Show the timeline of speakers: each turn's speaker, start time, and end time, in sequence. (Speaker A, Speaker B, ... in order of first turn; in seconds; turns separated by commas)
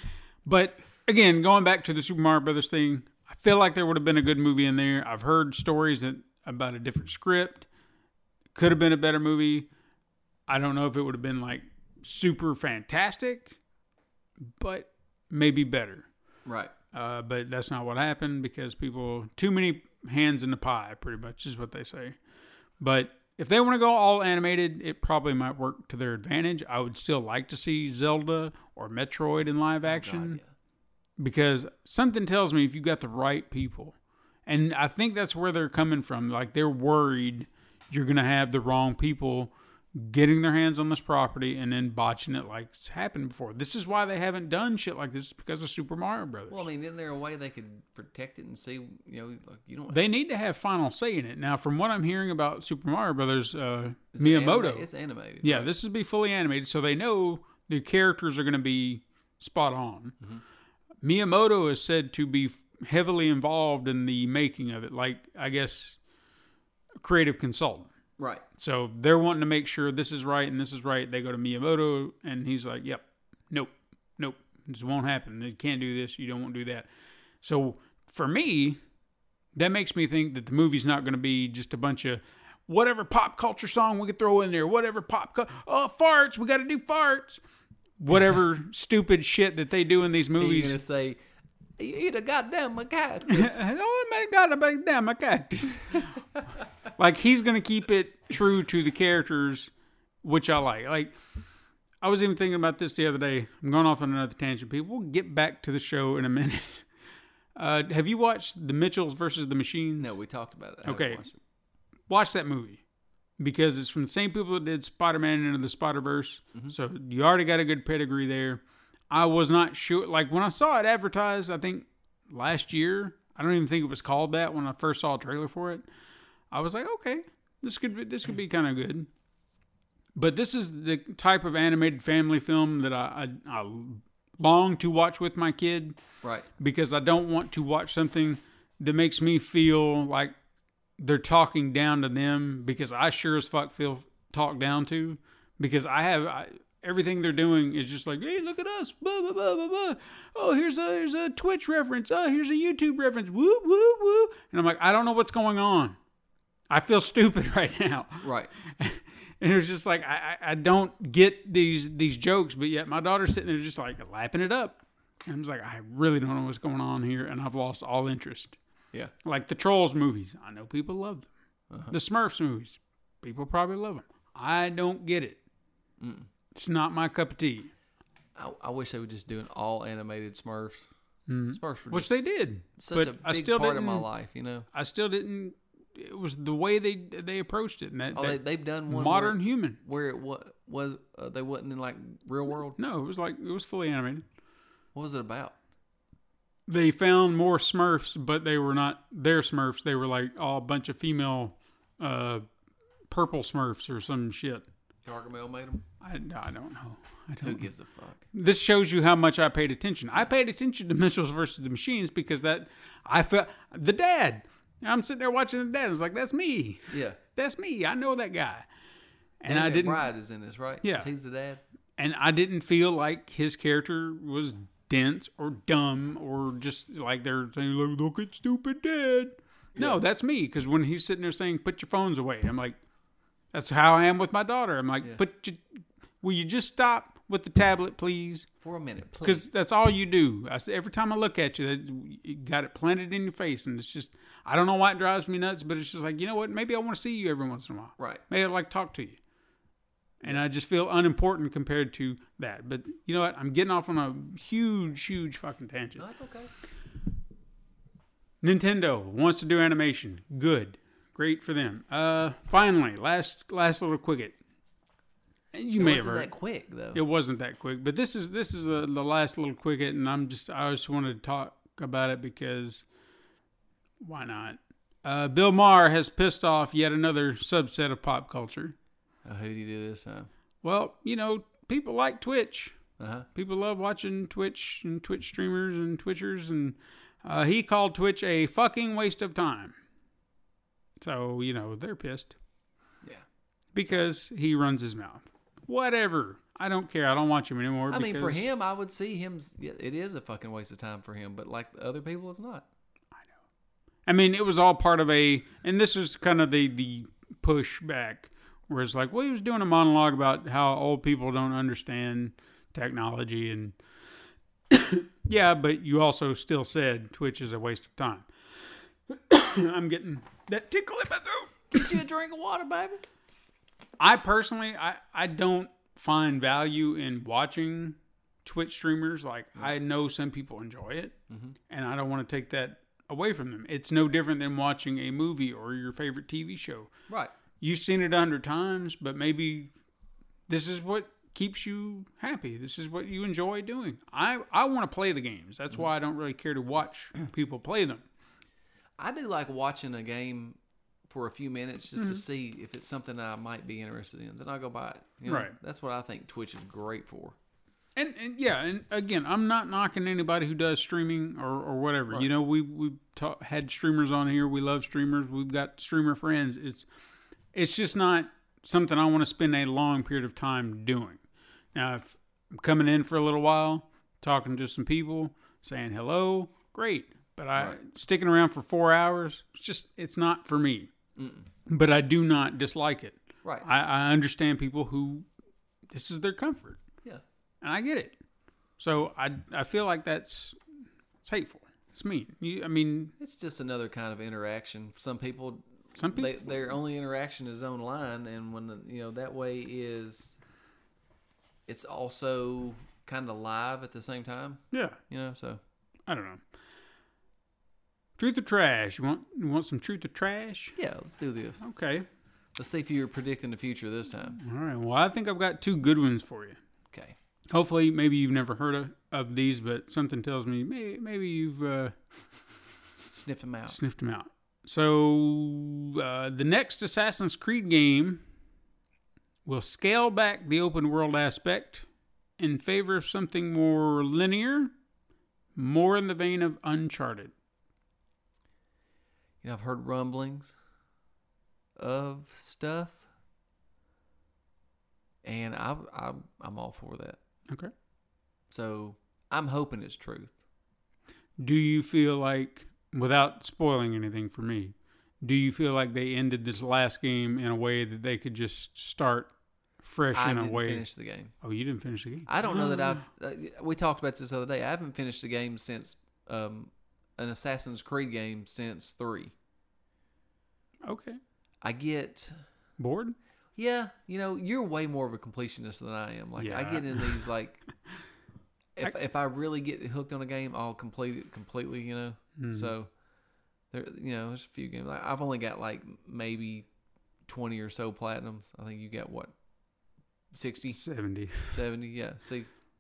Speaker A: 0.4-7.7, Speaker A: 8.6-9.7, Speaker A: 10.5-13.6, Speaker A: 14.4-16.1, Speaker B: 16.4-16.7, Speaker A: 16.9-22.2, Speaker A: 22.8-30.4, Speaker B: 29.9-30.5, Speaker A: 31.2-34.0, Speaker A: 34.5-46.6, Speaker B: 46.5-50.0, Speaker A: 49.9-54.9, Speaker B: 54.1-55.7, Speaker A: 55.4-60.1, Speaker A: 61.0-66.0, Speaker A: 67.0-67.9, Speaker B: 68.2-68.4, Speaker A: 68.5-76.9, Speaker A: 77.4-78.8, Speaker A: 79.5-87.4, Speaker A: 88.0-90.8, Speaker B: 90.4-91.2, Speaker B: 91.8-93.6, Speaker A: 93.3-96.1, Speaker A: 97.0-99.7, Speaker A: 100.2-101.2, Speaker A: 102.0-106.9, Speaker A: 107.6-110.1, Speaker B: 110.0-111.4, Speaker A: 110.8-111.3, Speaker A: 112.1-112.8, Speaker A: 113.4-125.9, Speaker A: 126.5-129.1, Speaker A: 130.2-136.0, Speaker B: 136.2-136.5, Speaker A: 136.6-140.3, Speaker A: 141.0-156.0, Speaker A: 156.7-168.6, Speaker B: 158.2-158.5, Speaker A: 169.2-171.3, Speaker B: 171.7-171.9, Speaker A: 171.9-175.4, Speaker B: 176.0-176.3, Speaker A: 176.6-177.7, Speaker B: 178.4-180.9, Speaker A: 181.3-184.1, Speaker B: 181.5-184.7, Speaker A: 184.7-189.8, Speaker B: 188.1-192.8, Speaker A: 192.8-194.2, Speaker B: 194.9-195.6, Speaker A: 196.7-202.5, Speaker A: 203.1-204.7, Speaker B: 205.1-205.8, Speaker A: 206.0-207.7, Speaker B: 207.4-208.2, Speaker A: 208.3-218.7, Speaker B: 216.9-217.2, Speaker A: 219.4-220.1, Speaker B: 219.5-221.6, Speaker A: 220.8-221.1, Speaker A: 222.0-232.8, Speaker A: 233.5-238.5, Speaker B: 238.6-239.4, Speaker A: 239.2-249.2, Speaker A: 250.2-256.0, Speaker B: 256.0-256.5, Speaker A: 258.4-264.4, Speaker A: 265.5-266.3, Speaker B: 265.8-267.0, Speaker A: 266.9-272.9, Speaker A: 274.0-278.8, Speaker B: 279.2-280.3, Speaker A: 280.6-282.8, Speaker B: 283.0-283.3, Speaker A: 283.4-289.8, Speaker A: 291.0-292.3, Speaker A: 293.7-298.4, Speaker B: 297.9-302.7, Speaker A: 304.1-313.8, Speaker A: 314.7-322.0, Speaker B: 321.7-323.0, Speaker A: 324.0-331.2, Speaker B: 331.3-331.6, Speaker A: 331.7-336.9, Speaker A: 337.6-339.7, Speaker A: 340.5-348.1, Speaker B: 349.0-357.4, Speaker A: 352.0-352.2, Speaker A: 355.3-355.6, Speaker A: 358.0-366.9, Speaker A: 367.5-371.2, Speaker A: 371.7-380.9, Speaker B: 381.2-381.5, Speaker A: 381.7-385.3, Speaker A: 385.9-386.8, Speaker A: 387.6-388.2, Speaker A: 388.8-390.6, Speaker A: 391.2-393.1, Speaker B: 393.2-400.4, Speaker A: 395.9-396.4, Speaker B: 401.7-405.6, Speaker A: 404.7-405.0, Speaker A: 406.1-406.4, Speaker A: 408.2-410.8, Speaker B: 410.8-411.6, Speaker A: 411.6-412.1, Speaker B: 412.6-414.4, Speaker A: 414.4-416.6, Speaker A: 417.5-421.9, Speaker B: 423.1-423.8, Speaker A: 423.7-428.2, Speaker A: 429.4-431.9, Speaker A: 432.4-434.7, Speaker A: 435.6-437.3, Speaker B: 439.4-440.6, Speaker B: 441.8-443.1, Speaker B: 445.2-447.2, Speaker B: 448.5-450.3, Speaker A: 451.4-459.3, Speaker A: 459.8-460.9, Speaker B: 460.1-461.3, Speaker A: 461.4-463.1, Speaker B: 462.3-469.3, Speaker A: 470.9-471.2, Speaker B: 471.6-472.4, Speaker A: 472.8-473.2, Speaker B: 473.6-477.6, Speaker A: 476.4-477.2, Speaker B: 478.8-482.9, Speaker A: 482.4-482.7, Speaker B: 483.7-486.7, Speaker B: 487.3-489.3, Speaker B: 490.3-490.9, Speaker A: 490.7-491.6, Speaker B: 491.4-492.5